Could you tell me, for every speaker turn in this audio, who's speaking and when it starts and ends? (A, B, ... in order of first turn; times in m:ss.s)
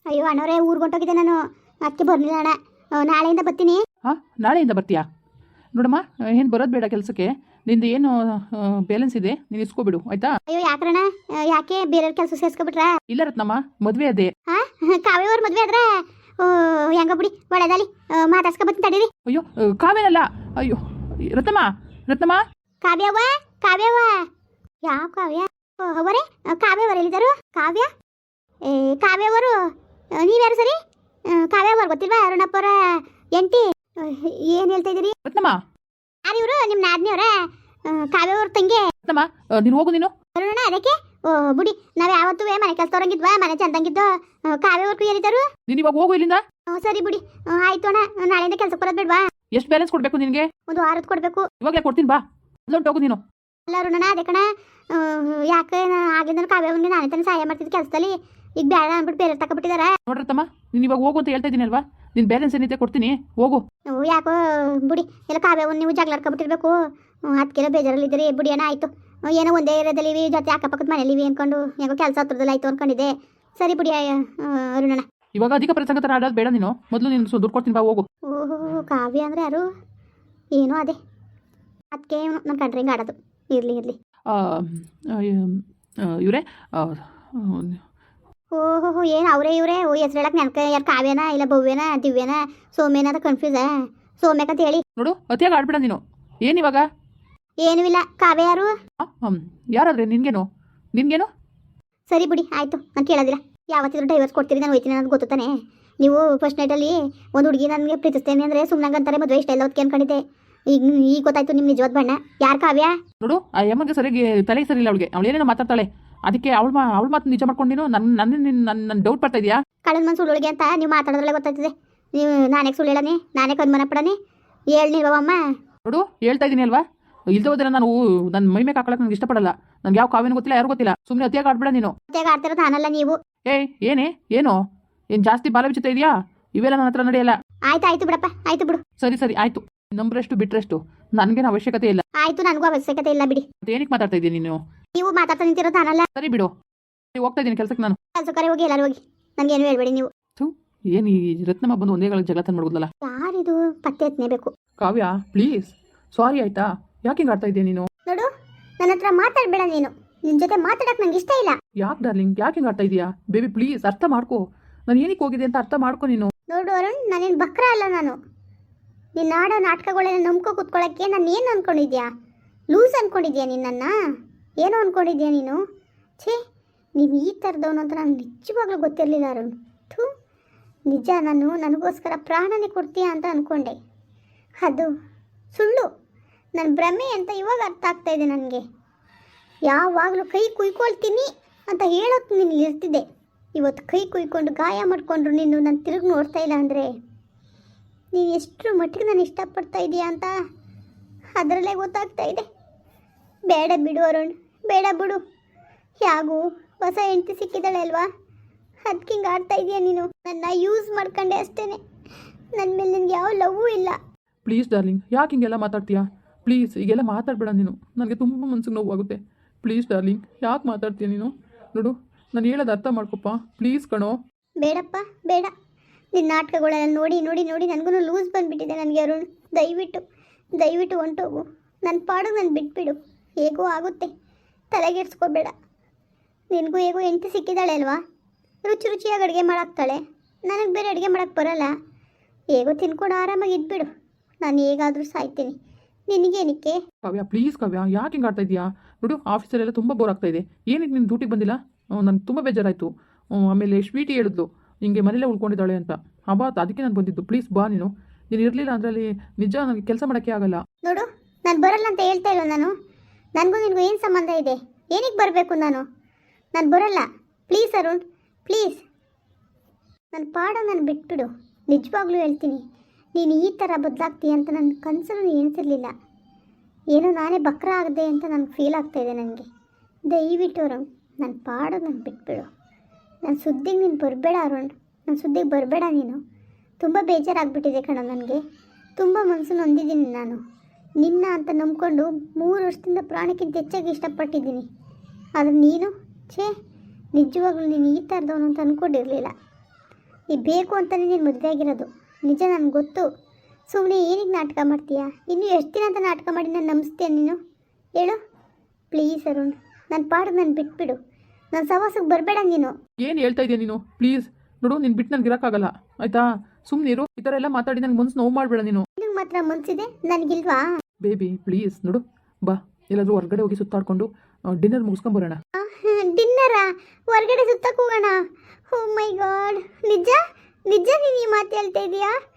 0:00.1-0:03.8 A
0:04.0-0:05.0 B
0:05.7-0:10.4 B
0:10.5-0:13.0 A
0:13.1-0:14.3 B
0:14.5-0:19.1 A
0:19.2-0:22.4 B
0:22.8-0:24.3 A
0:24.8-0:27.9 A
0:28.6-0:35.2 A
0:35.2-0:35.6 B
0:36.2-0:38.9 A
0:39.0-0:40.1 B
0:40.3-0:45.4 A
0:45.7-0:46.4 B
0:46.7-0:49.2 A
0:49.5-0:50.4 B
0:50.7-0:51.5 A
0:51.6-0:53.2 B
0:53.7-1:00.0 A
1:00.1-1:03.6 B
1:03.9-1:15.0 A
1:15.3-1:18.0 B
1:18.2-1:19.6 A
1:20.5-1:21.0 A
1:21.9-1:24.0 A
1:24.3-1:27.8 B
1:28.5-1:34.8 A
1:35.0-1:36.8 B
1:37.6-1:38.7 A
1:39.0-1:41.3 B
1:42.1-1:52.9 A
1:53.2-1:59.6 B
1:59.8-2:04.2 A
2:04.7-2:05.4 A
2:05.8-2:11.9 B
2:12.1-2:13.2 A
2:13.4-2:14.6 B
2:15.1-2:17.4 B
2:17.7-2:18.8 A
2:19.0-2:22.0 B
2:22.2-2:23.4 A
2:23.6-2:24.6 B
2:24.9-2:26.1 A
2:26.1-2:26.5 B
2:27.1-2:28.0 B
2:28.1-2:30.1 A
2:30.4-2:32.9 B
2:33.0-2:34.5 A
2:34.8-2:37.9 B
2:38.8-2:41.6 A
2:41.8-2:46.3 B
2:46.5-2:48.2 A
2:49.2-2:52.1 A
2:52.7-2:53.9 A
2:54.6-2:55.6 A
2:57.0-3:00.1 A
3:00.9-3:03.8 A
3:04.6-3:04.9 A
3:05.5-3:05.9 A
3:06.6-3:08.6 A
3:09.7-3:16.9 A
3:18.1-3:20.4 A
3:21.4-3:22.4 A
3:23.5-3:25.2 A
3:26.0-3:28.1 A
3:28.8-3:31.8 A
3:32.5-3:34.0 A
3:34.4-3:44.2 B
3:44.6-3:45.5 A
3:46.1-3:50.0 A
3:50.5-3:54.1 A
3:54.7-3:55.5 A
3:56.5-3:58.0 A
3:58.6-4:01.7 A
4:02.5-4:03.9 A
4:04.4-4:05.6 A
4:06.1-4:06.8 A
4:07.0-4:20.6 B
4:20.8-4:22.7 A
4:23.4-4:25.8 A
4:26.5-4:28.8 A
4:30.1-4:32.6 A
4:33.1-4:35.9 A
4:36.9-4:39.4 A
4:40.1-4:42.5 A
4:43.2-4:46.2 A
4:46.8-4:48.4 A
4:49.0-4:50.4 A
4:51.0-4:54.6 A
4:55.4-4:56.5 A
4:57.1-4:59.3 A
5:00.3-5:03.1 A
5:03.7-5:07.4 A
5:08.9-5:11.0 A
5:11.5-5:12.8 A
5:13.0-5:18.8 B
5:19.0-5:20.7 A
5:21.0-5:25.4 B
5:25.6-5:32.1 A